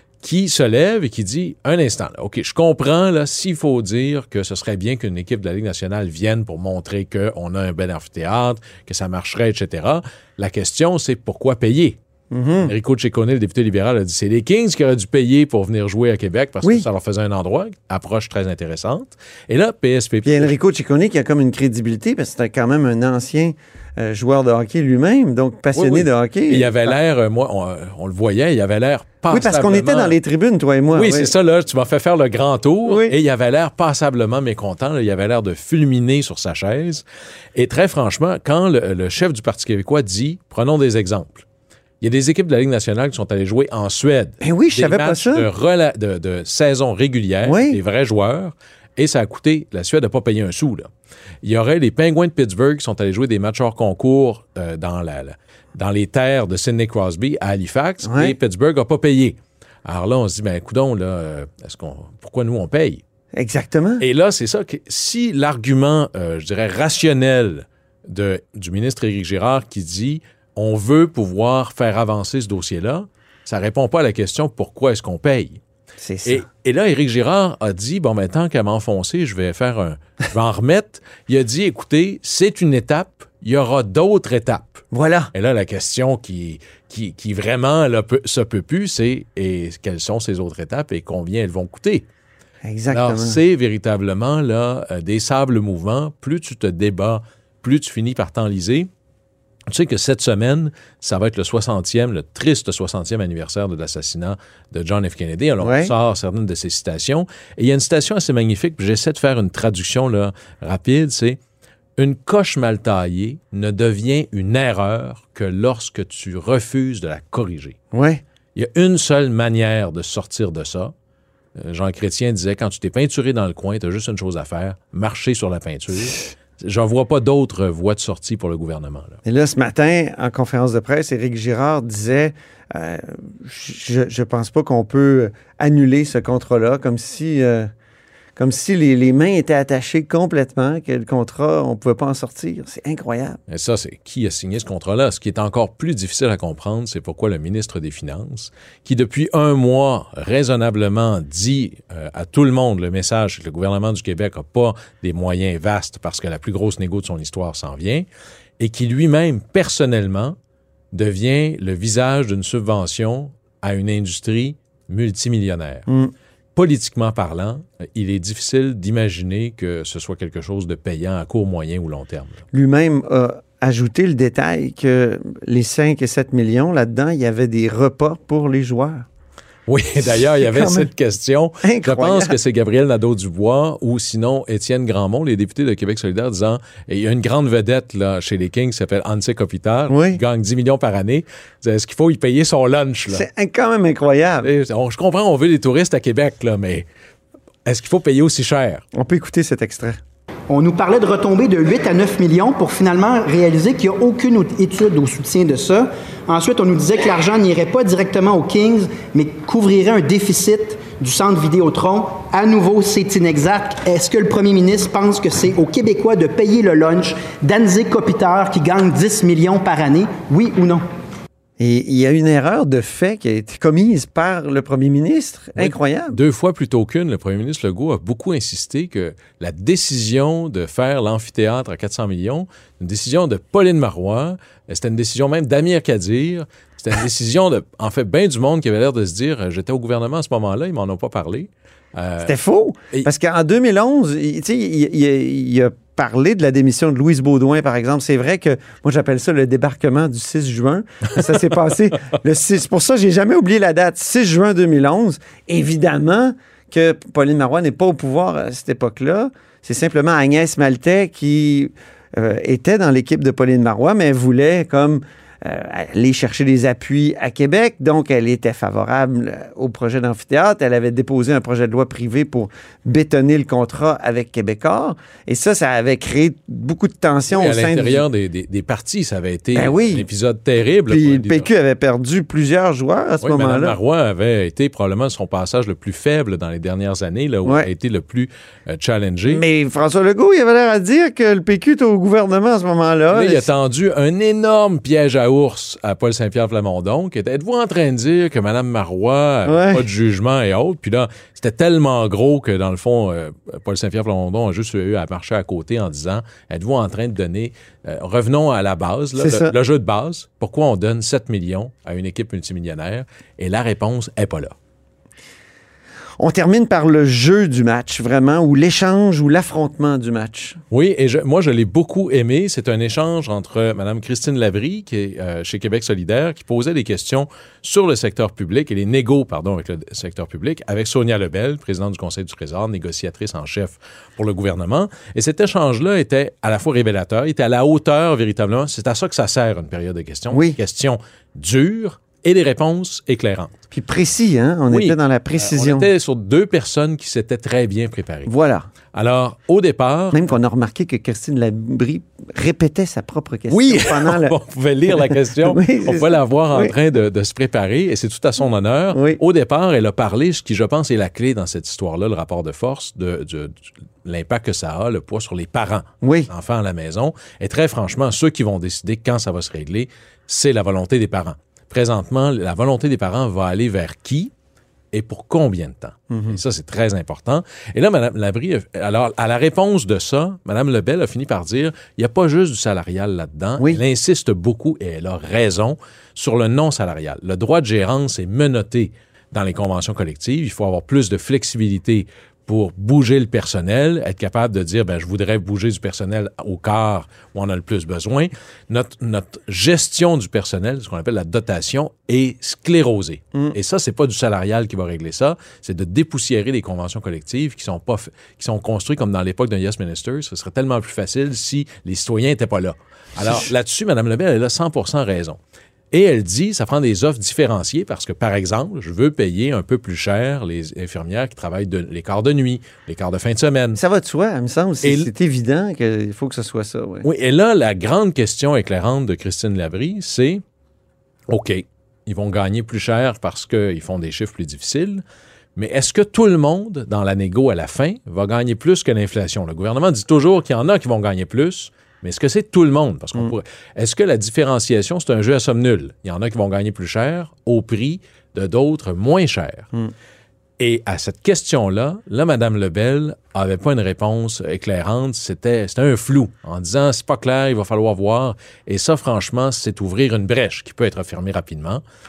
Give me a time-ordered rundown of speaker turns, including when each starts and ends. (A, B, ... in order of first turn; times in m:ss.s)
0:00.2-0:12.0 A
0:12.3-0:12.7 B
0:12.6-0:20.5 A
0:20.2-0:26.9 B
0:25.7-0:30.2 A
0:29.3-0:31.3 B
0:30.9-0:37.0 A
0:32.8-0:33.1 B
0:37.5-0:41.4 A
0:42.0-0:50.9 A
0:44.4-0:45.5 B
0:47.4-0:47.8 B
0:51.4-1:03.0 A
0:58.0-0:58.3 B
1:03.3-1:04.0 B
1:04.0-1:15.6 A
1:16.0-1:16.4 B
1:16.2-1:32.0 A
1:24.9-1:25.3 B
1:32.6-1:33.4 B
1:32.9-1:38.9 A
1:39.7-1:51.4 A
1:45.6-1:45.9 B
1:52.0-1:57.8 A
1:57.9-1:58.2 B
1:58.5-2:00.9 A
2:01.6-2:09.2 A
2:09.2-2:17.7 B
2:18.4-2:23.4 B
2:23.5-2:38.0 A
2:38.6-2:40.4 A
2:40.9-2:45.9 A
2:45.9-2:46.1 B
2:46.5-2:52.4 A
2:52.5-2:59.0 B
2:59.7-3:13.2 A
3:00.0-3:00.9 B
3:01.6-3:02.3 B
3:09.9-3:10.2 B
3:13.1-3:14.5 B
3:14.4-3:16.8 A
3:17.6-3:18.8 A
3:18.9-3:20.0 B
3:20.5-3:40.8 C
3:41.6-3:46.2 B
3:45.6-4:02.4 A
4:02.2-4:38.0 B
4:37.3-4:41.5 A
4:39.5-4:40.0 B
4:40.9-4:43.8 B
4:43.2-4:49.4 A
4:49.3-4:53.4 B
4:53.1-5:14.5 A
4:59.4-4:59.8 B
5:09.2-5:09.5 B
5:16.2-5:20.6 B
5:20.7-5:43.5 A
5:40.3-5:40.6 B
5:43.7-5:45.9 B
5:44.7-5:48.3 A
5:48.3-5:48.7 B
5:48.9-5:50.3 A
5:50.1-5:54.3 B
5:53.5-6:03.5 A
5:54.9-5:56.7 B
5:58.9-5:59.2 B
6:04.0-6:14.3 A
6:06.0-6:06.3 B
6:14.9-6:55.4 A
6:16.1-6:16.4 B
6:55.9-7:03.8 A
7:03.8-7:07.0 B
7:04.8-7:05.1 A
7:07.0-7:10.4 A
7:11.3-7:15.0 A
7:15.6-7:29.7 A
7:30.6-7:41.8 A